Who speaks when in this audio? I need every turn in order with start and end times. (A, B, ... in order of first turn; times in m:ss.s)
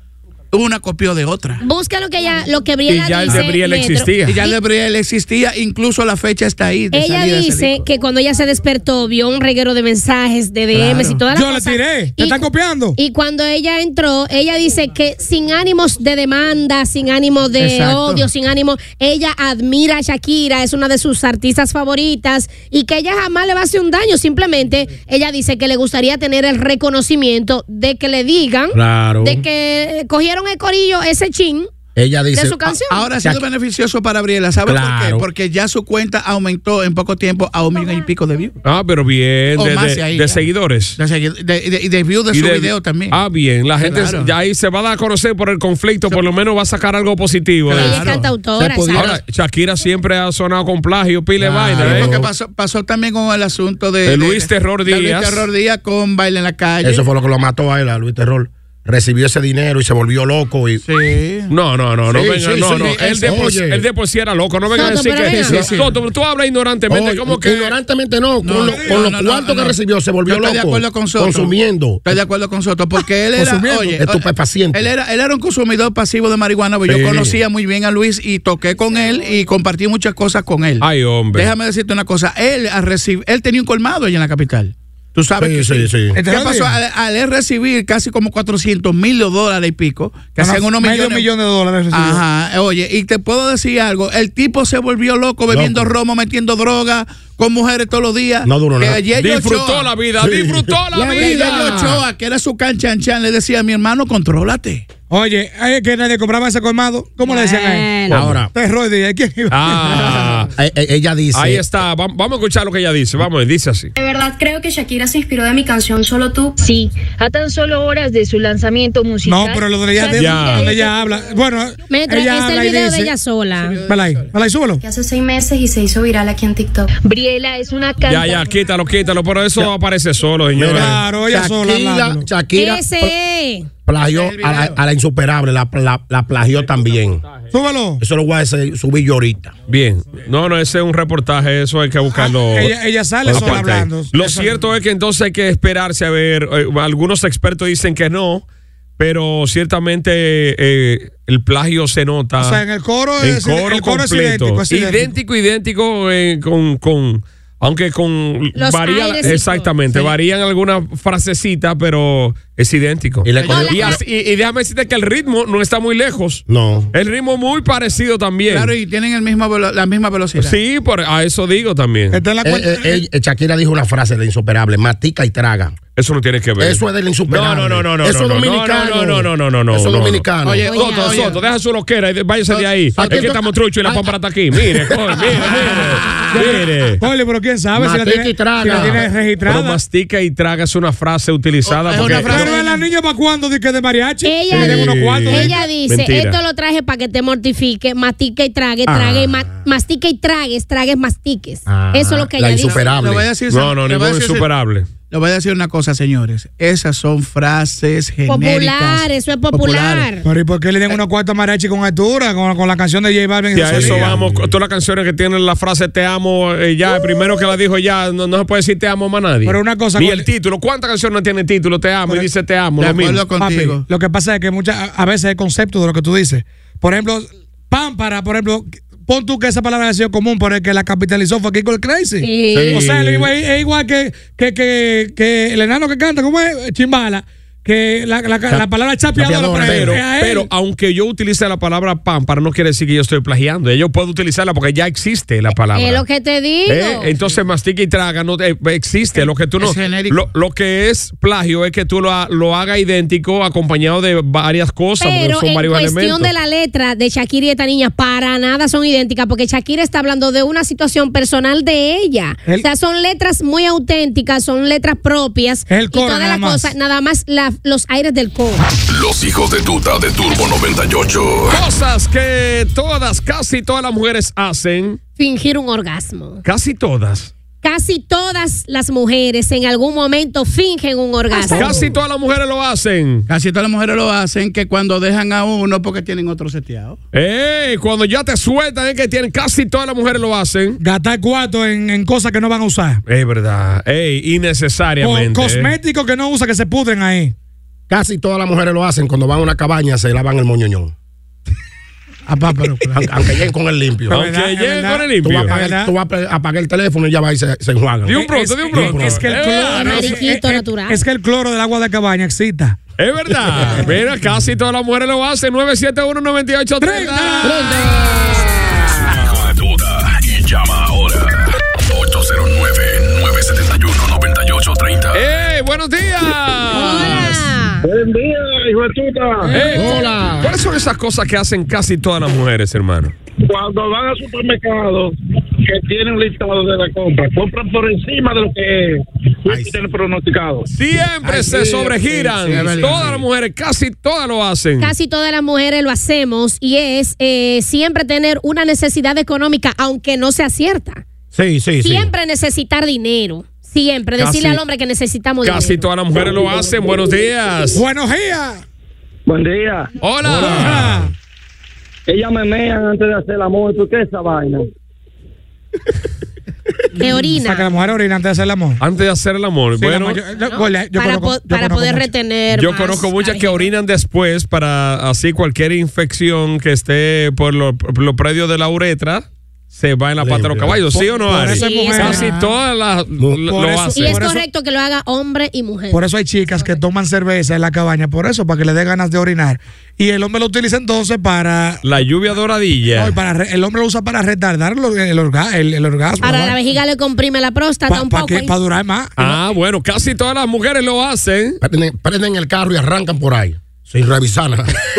0:00.5-0:01.6 A
0:01.6-0:04.6 B
0:02.9-0:04.4 C
0:04.2-0:07.8 A
0:06.9-0:12.4 B
0:10.7-0:11.2 A
0:11.3-0:13.0 D
0:13.0-0:31.7 B
0:17.6-0:18.3 A
0:28.7-0:29.4 E
0:32.0-0:33.4 E
0:32.3-0:33.0 B
0:32.9-0:38.5 A
0:34.6-0:35.2 E
0:38.6-0:41.0 C
0:39.5-0:40.4 A
0:41.0-0:43.2 A
0:42.3-0:48.1 C
0:43.8-0:44.3 A
0:47.7-0:48.3 A
0:47.7-0:49.1 B
0:48.6-0:49.2 E
0:48.9-0:52.2 C
0:51.4-0:57.0 A
0:51.4-0:52.3 E
0:54.0-0:55.5 C
0:56.8-1:00.8 E
1:00.8-1:01.5 A
1:01.5-1:07.7 C
1:02.1-1:03.8 E
1:02.8-1:03.3 A
1:04.7-1:05.6 B
1:04.9-1:06.0 A
1:06.9-1:12.1 E
1:08.4-1:31.3 A
1:08.7-1:09.1 D
1:13.4-1:13.9 D
1:13.9-1:14.9 E
1:16.9-1:17.4 E
1:20.8-1:21.5 C
1:25.4-1:26.2 E
1:26.1-1:26.7 D
1:30.4-1:32.2 D
1:31.9-1:39.9 A
1:35.5-1:35.9 E
1:38.4-1:39.0 E
1:39.2-1:42.0 C
1:40.2-1:41.8 E
1:41.0-1:44.9 A
1:45.1-1:49.7 D
1:47.2-1:48.2 B
1:48.1-1:48.5 E
1:49.5-1:50.5 C
1:50.6-1:51.6 E
1:51.3-1:53.9 C
1:54.0-1:56.5 F
1:56.6-2:00.9 G
1:59.2-2:03.1 D
2:00.1-2:00.8 C
2:01.9-2:03.8 B
2:03.6-2:04.3 A
2:03.8-2:04.8 D
2:04.8-2:06.9 F
2:07.0-2:08.5 G
2:08.0-2:11.0 C
2:10.5-2:13.1 E
2:10.7-2:12.3 D
2:12.5-2:13.7 B
2:13.8-2:17.2 E
2:14.0-2:14.8 A
2:17.5-2:18.0 D
2:18.0-2:19.5 E
2:19.7-2:22.7 C
2:22.1-2:24.5 D
2:23.2-2:23.6 E
2:23.2-2:28.4 C
2:29.0-2:32.6 C
2:32.4-2:35.1 D
2:33.2-2:48.7 C
2:38.5-2:39.7 B
2:43.2-2:44.0 E
2:43.4-2:43.9 A
2:43.5-2:44.0 B
2:46.5-2:46.9 E
2:48.5-2:50.6 A
2:50.4-2:52.2 C
2:52.1-2:53.0 D
2:52.4-2:55.8 E
2:56.0-3:07.0 C
2:56.6-3:00.7 E
3:00.4-3:01.4 A
3:00.6-3:01.2 B
3:02.5-3:03.4 A
3:03.0-3:03.4 E
3:05.4-3:06.4 A
3:06.3-3:09.8 D
3:07.7-3:09.1 E
3:09.4-3:12.6 C
3:11.6-3:12.8 A
3:12.0-3:15.6 D
3:14.2-3:22.9 B
3:14.5-3:16.4 C
3:18.9-3:19.6 E
3:21.6-3:23.3 E
3:22.7-3:24.4 A
3:23.5-3:24.9 C
3:25.1-3:30.1 A
3:28.3-3:30.2 B
3:30.2-3:34.2 D
3:33.5-3:43.2 C
3:33.7-3:34.5 E
3:39.4-3:40.3 D
3:42.8-3:43.8 A
3:43.4-4:00.5 D
3:52.2-3:52.8 B
3:52.5-3:53.3 E
3:59.1-4:00.0 E
3:59.4-4:06.0 C
4:05.7-4:07.1 B
4:06.7-4:16.3 C
4:09.6-4:10.2 A
4:15.0-4:28.6 B
4:25.7-4:26.7 D
4:28.9-4:31.6 H
4:31.5-4:35.0 C
4:35.2-4:36.4 B
4:36.4-4:37.3 C
4:37.6-4:41.8 B
4:41.5-4:43.3 C
4:43.3-4:47.0 A
4:47.1-4:50.8 C
4:50.8-4:53.0 D
4:53.1-4:55.7 C
4:55.0-4:57.3 D
4:57.9-5:00.9 E
5:02.3-5:03.1 A
5:02.9-5:04.2 E
5:04.1-5:05.5 C
5:04.1-5:05.9 D
5:05.2-5:09.3 E
5:08.0-5:10.2 C
5:08.1-5:12.8 D
5:09.7-5:11.0 B
5:13.0-5:18.0 C
5:16.8-5:17.8 D
5:19.2-5:25.2 H
5:25.1-5:27.4 C
5:26.7-5:27.8 B
5:27.8-5:29.5 I
5:29.5-5:33.1 C
5:29.7-5:30.5 E
5:33.5-5:35.1 I
5:35.7-5:40.6 I
5:39.5-5:39.7 E
5:40.7-5:44.9 C
5:41.2-5:43.2 E
5:42.4-5:43.1 A
5:44.8-5:51.0 B
5:51.3-5:52.1 E
5:51.8-5:55.8 B
5:54.2-5:54.6 C
5:55.4-5:57.8 C
5:57.7-5:58.6 D
5:59.3-5:59.9 I
6:00.0-6:01.0 C
6:00.2-6:01.1 D
6:02.1-6:04.6 I
6:07.0-6:07.7 B
6:07.3-6:08.8 D
6:08.8-6:10.2 C
6:09.8-6:12.1 D
6:10.4-6:13.7 B
6:12.5-6:24.2 C
6:20.2-6:20.9 E
6:21.0-6:22.3 D
6:21.5-6:22.3 B
6:22.0-6:22.5 A
6:23.2-6:23.5 E
6:23.5-6:24.4 D
6:23.9-6:26.0 B
6:25.9-6:31.8 D
6:31.8-6:33.1 C
6:33.0-6:36.6 D
6:36.2-6:38.5 B
6:37.9-6:39.4 D
6:39.2-6:41.6 C
6:41.6-6:44.7 E